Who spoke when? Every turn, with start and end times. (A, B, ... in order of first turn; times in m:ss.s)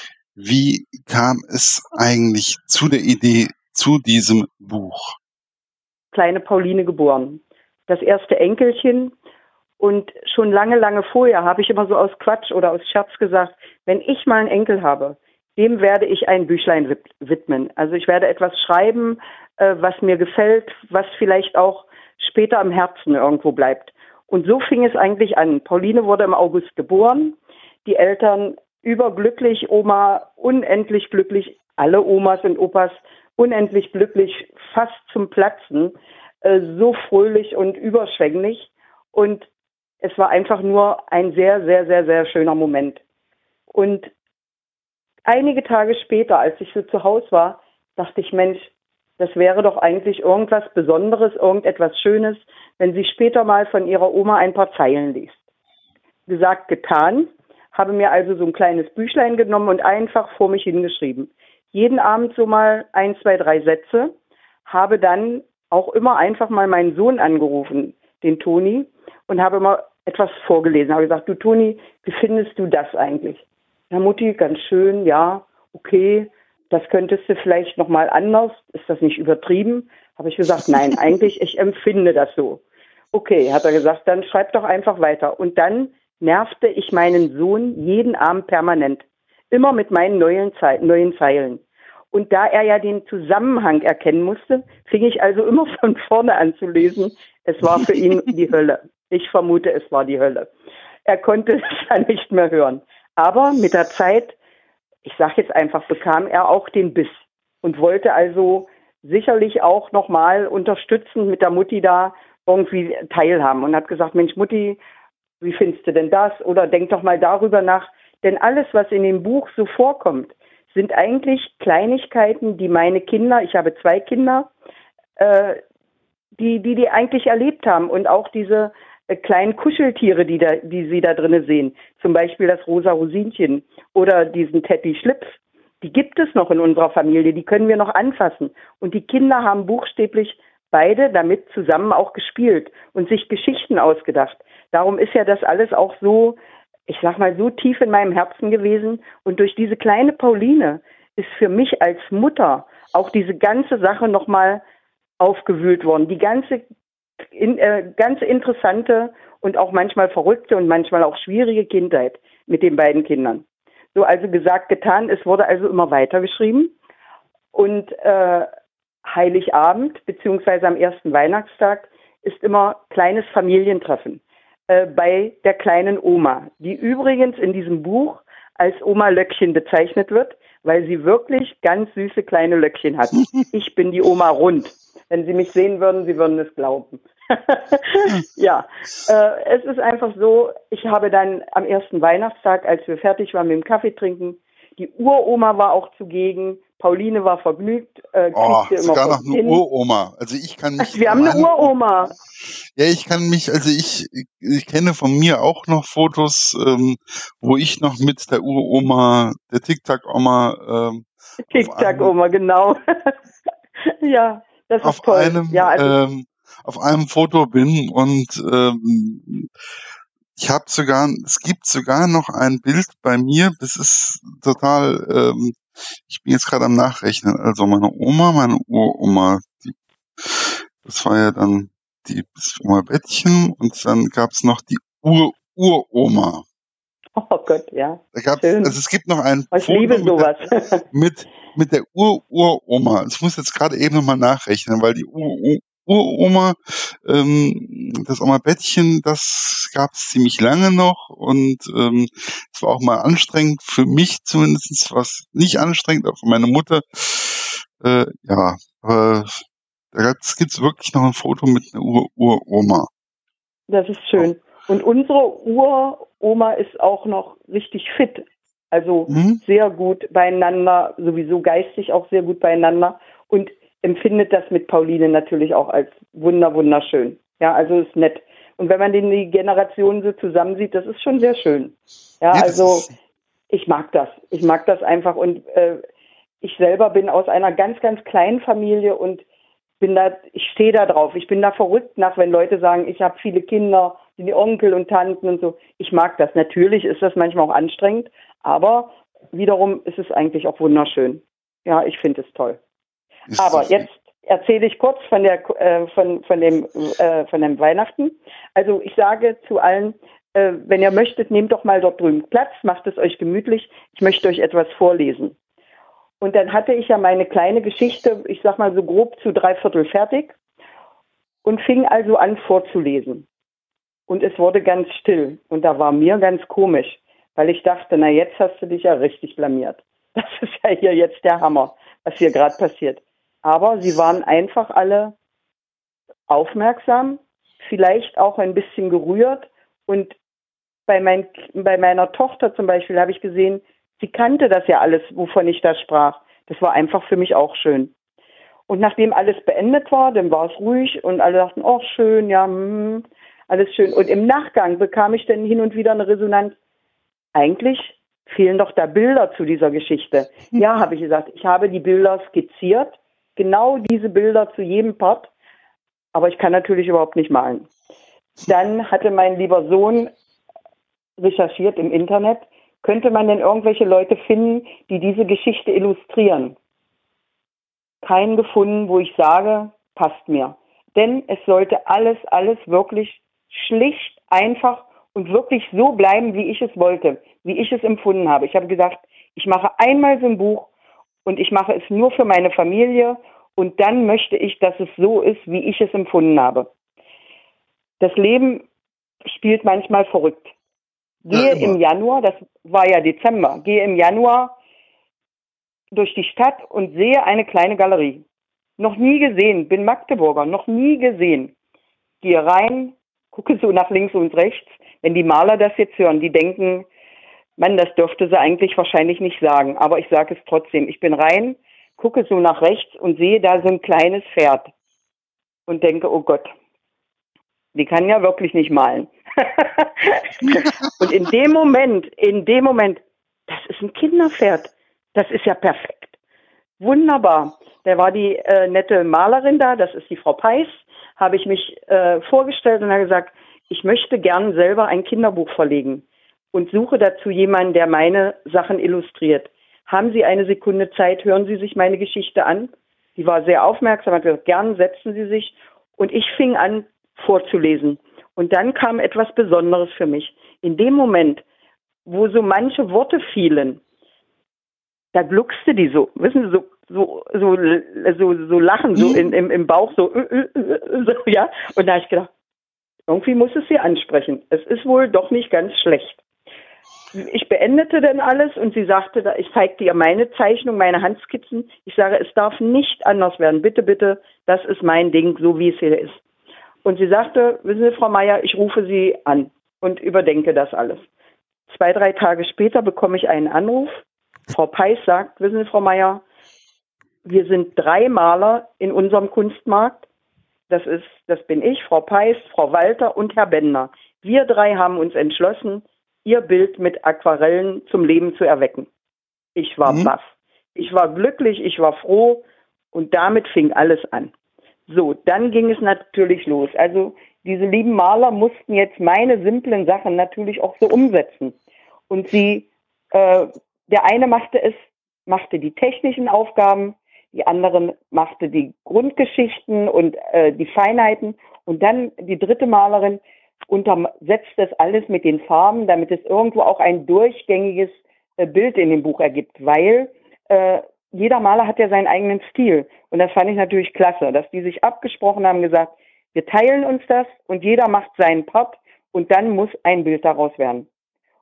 0:00.3-0:05.2 A
0:06.1-0:09.1 B
0:09.8-0:39.4 B
0:40.0-0:43.0 B
0:43.7-0:44.1 B
0:45.3-0:55.4 B
0:56.3-1:04.1 B
1:04.6-1:40.5 B
1:41.0-1:44.4 B
1:45.0-1:54.8 B
1:55.4-2:04.5 B
2:05.2-2:05.6 B
2:06.4-2:26.4 B
2:26.9-2:34.6 B
2:35.2-2:36.6 B
2:37.3-2:46.7 B
2:47.5-2:48.5 B
2:49.0-3:19.6 B
3:18.3-3:21.7 A
3:20.8-3:22.1 B
3:22.8-3:32.1 A
3:31.5-3:33.1 B
3:33.8-3:35.9 B
3:34.8-3:39.5 A
3:40.4-3:56.4 A
3:57.2-3:58.7 B
3:58.1-4:00.3 A
3:59.5-4:00.8 B
4:00.9-4:22.9 A
4:23.7-4:42.9 B
4:29.1-4:29.4 A
4:42.3-4:42.9 A
4:43.5-4:45.8 B
4:46.4-4:49.2 B
4:49.8-5:02.6 B
5:03.3-5:03.8 A
5:03.3-5:15.4 B
5:16.2-5:20.3 B
5:21.4-5:23.3 B
5:24.1-5:35.1 B
5:36.3-5:40.2 B
5:40.9-5:47.9 B
5:48.7-5:56.6 B
5:57.3-6:05.3 B
6:06.1-6:07.7 B
6:08.4-6:10.1 B
6:11.2-6:16.6 B
6:18.0-6:30.7 B
6:31.2-6:36.7 B
6:38.0-6:38.6 B
6:39.3-6:40.5 B
6:41.3-6:44.6 B
6:41.3-6:41.7 A
6:45.9-6:48.2 B
6:48.8-6:51.5 B
6:52.2-6:56.9 B
6:57.6-7:04.7 B
7:05.7-7:06.5 B
7:07.7-7:16.1 B
7:16.8-7:41.4 B
7:42.0-7:43.8 B
7:45.1-7:52.3 B
7:53.1-7:56.2 B
7:57.1-8:06.2 B
8:06.8-8:11.0 B
8:11.7-8:16.2 B
8:17.2-8:20.0 B
8:20.7-8:28.9 B
8:29.6-8:34.3 B
8:29.8-8:30.1 A
8:34.9-8:41.6 B
8:42.1-9:10.9 B